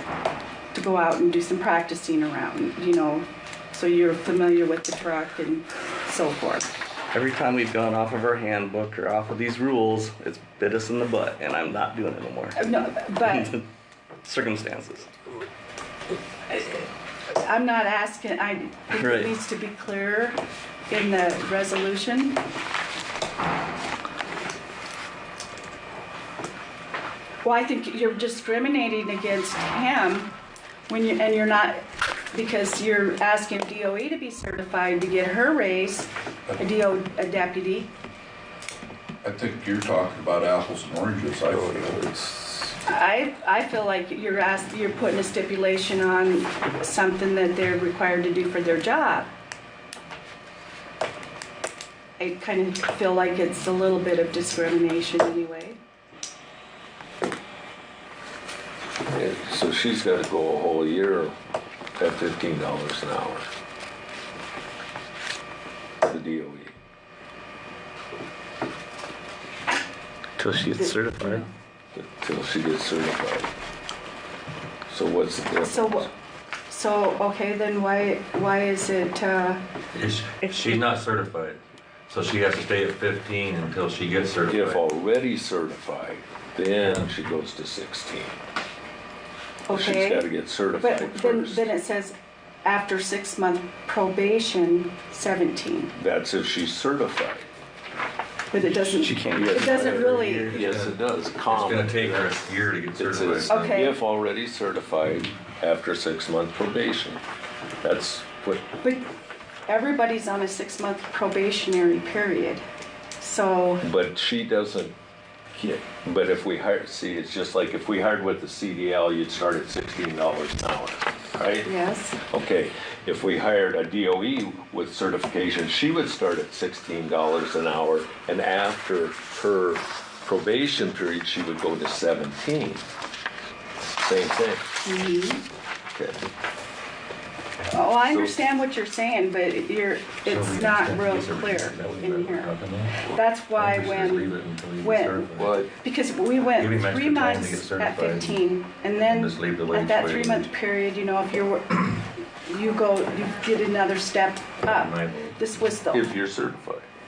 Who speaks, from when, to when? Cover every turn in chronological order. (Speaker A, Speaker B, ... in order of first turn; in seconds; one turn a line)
Speaker A: 0.7-6.7
Speaker B: 7.1-12.6
Speaker A: 12.6-13.5
Speaker B: 13.2-13.6
Speaker B: 14.2-15.1
Speaker A: 16.5-20.4
Speaker B: 18.9-19.3
Speaker A: 20.9-22.4
Speaker A: 27.4-30.3
Speaker A: 30.9-37.9
Speaker C: 39.2-42.0
Speaker D: 41.5-42.7
Speaker A: 42.9-49.3
Speaker A: 52.2-55.8
Speaker D: 59.1-61.4
Speaker D: 62.0-63.5
Speaker D: 66.0-66.7
Speaker B: 70.4-71.5
Speaker A: 70.8-71.5
Speaker D: 71.9-73.5
Speaker D: 74.9-76.1
Speaker A: 75.6-76.1
Speaker A: 76.7-79.6
Speaker E: 79.9-84.8
Speaker A: 80.5-80.8
Speaker D: 84.5-88.3
Speaker E: 86.8-87.1
Speaker A: 89.7-90.3
Speaker D: 89.7-91.7
Speaker A: 90.8-95.9
Speaker D: 96.0-97.5
Speaker A: 98.5-100.5
Speaker B: 98.7-100.3
Speaker D: 99.3-102.3
Speaker E: 100.3-103.9
Speaker D: 103.0-107.2
Speaker A: 103.5-104.0
Speaker D: 107.8-108.6
Speaker A: 108.8-109.1
Speaker A: 109.7-112.6
Speaker A: 113.2-113.8
Speaker D: 113.8-114.9
Speaker D: 115.5-121.7
Speaker A: 121.6-122.2
Speaker D: 122.2-132.8
Speaker D: 134.0-134.8
Speaker A: 134.8-135.4
Speaker D: 135.9-136.2
Speaker A: 137.7-142.5
Speaker D: 138.1-138.4
Speaker E: 140.2-145.6
Speaker A: 143.0-156.1
Speaker D: 145.3-145.7
Speaker E: 146.6-148.5
Speaker E: 149.0-150.5
Speaker E: 154.6-155.4
Speaker D: 155.9-156.9